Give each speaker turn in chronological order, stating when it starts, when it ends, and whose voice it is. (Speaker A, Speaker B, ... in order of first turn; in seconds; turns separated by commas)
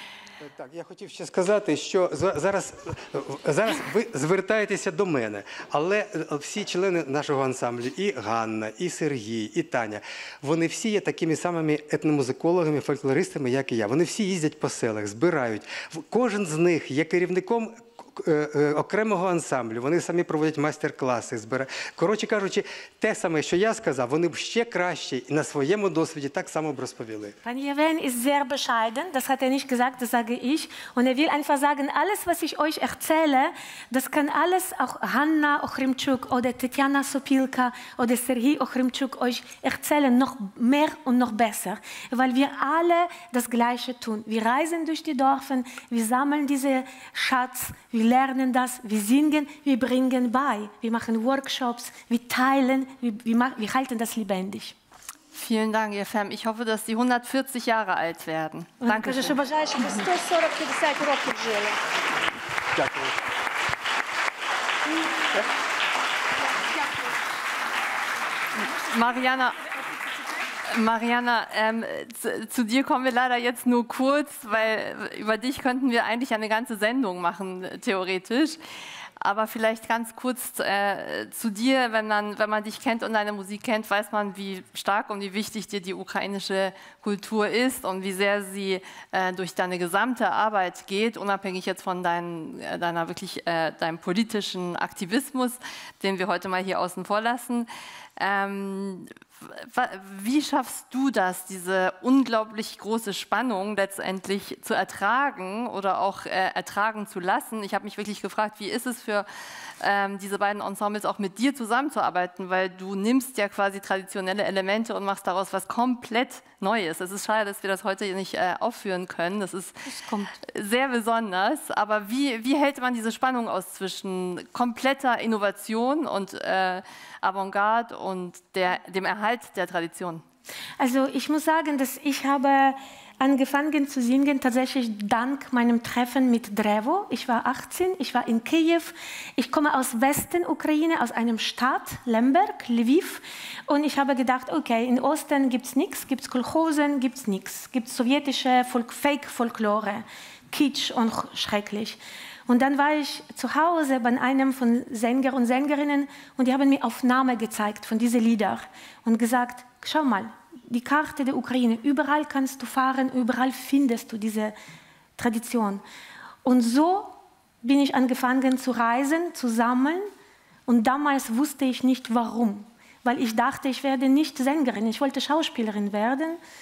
Speaker A: 0.4-27.4, Speaker B: 27.4-54.8, Speaker C: 55.3-59.4, Speaker B: 58.8-61.8, Speaker A: 62.7-63.2, Speaker C: 68.6-69.7, Speaker C: 70.6-78.6, Speaker C: 79.2-130.2, Speaker B: 119.9-120.3, Speaker B: 130.8-164.6, Speaker B: 165.2-165.8, Speaker B: 166.4-170.1, Speaker B: 170.7-176.4